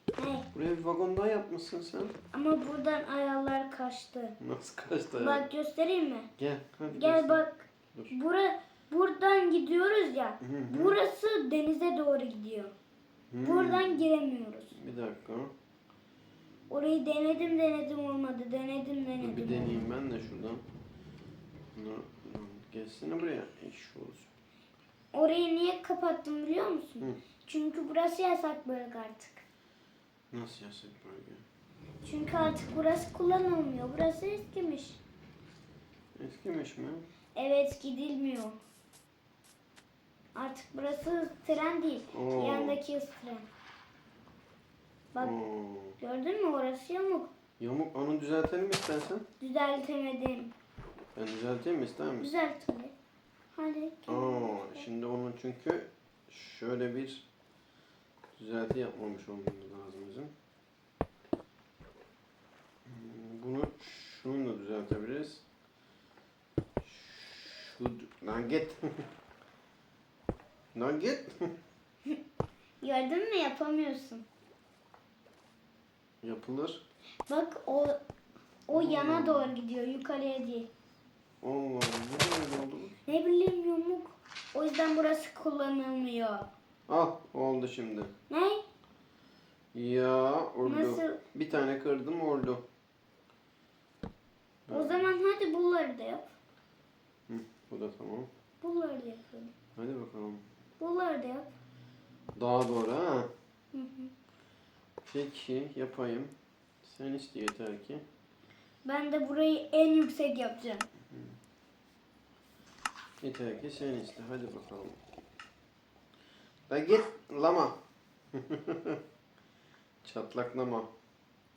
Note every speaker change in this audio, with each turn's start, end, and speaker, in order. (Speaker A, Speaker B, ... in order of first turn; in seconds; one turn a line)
Speaker A: 0.2-0.5
Speaker B: 0.5-2.1
Speaker A: 2.3-4.4
Speaker B: 4.4-5.5
Speaker A: 5.2-6.3
Speaker B: 6.4-7.4
Speaker A: 6.9-12.7
Speaker B: 10.4-11.0
Speaker B: 13.3-14.0
Speaker A: 13.4-14.8
Speaker B: 14.7-15.5
Speaker A: 16.7-19.9
Speaker B: 19.2-20.6
Speaker B: 21.7-24.3
Speaker A: 25.1-29.4
Speaker B: 30.3-31.4
Speaker A: 32.0-35.0
Speaker B: 36.2-37.1
Speaker A: 37.4-38.6
Speaker A: 40.4-43.5
Speaker B: 42.1-42.8
Speaker B: 45.2-46.0
Speaker A: 46.0-47.3
Speaker B: 47.6-49.2
Speaker A: 49.4-50.5
Speaker B: 51.1-52.3
Speaker A: 52.2-52.9
Speaker A: 53.5-54.9
Speaker B: 54.1-57.2
Speaker B: 58.4-60.3
Speaker B: 62.9-65.4
Speaker B: 66.8-69.1
Speaker B: 70.8-71.5
Speaker A: 72.8-74.2
Speaker B: 76.2-76.8
Speaker A: 77.3-78.0
Speaker A: 78.7-80.7
Speaker B: 78.7-79.5
Speaker B: 81.4-83.0
Speaker A: 83.1-86.5
Speaker B: 86.9-88.1
Speaker A: 88.3-88.6
Speaker B: 89.7-92.6
Speaker A: 90.7-91.2
Speaker B: 94.7-95.1
Speaker A: 94.7-96.3
Speaker B: 97.3-98.3
Speaker A: 98.6-99.5
Speaker B: 99.8-100.4
Speaker A: 100.8-101.5
Speaker B: 102.4-103.3
Speaker A: 103.7-104.1
Speaker B: 105.0-108.0
Speaker A: 108.8-110.9
Speaker B: 111.1-111.4
Speaker B: 113.2-115.0
Speaker B: 116.7-117.8
Speaker B: 118.3-119.0
Speaker B: 120.0-120.9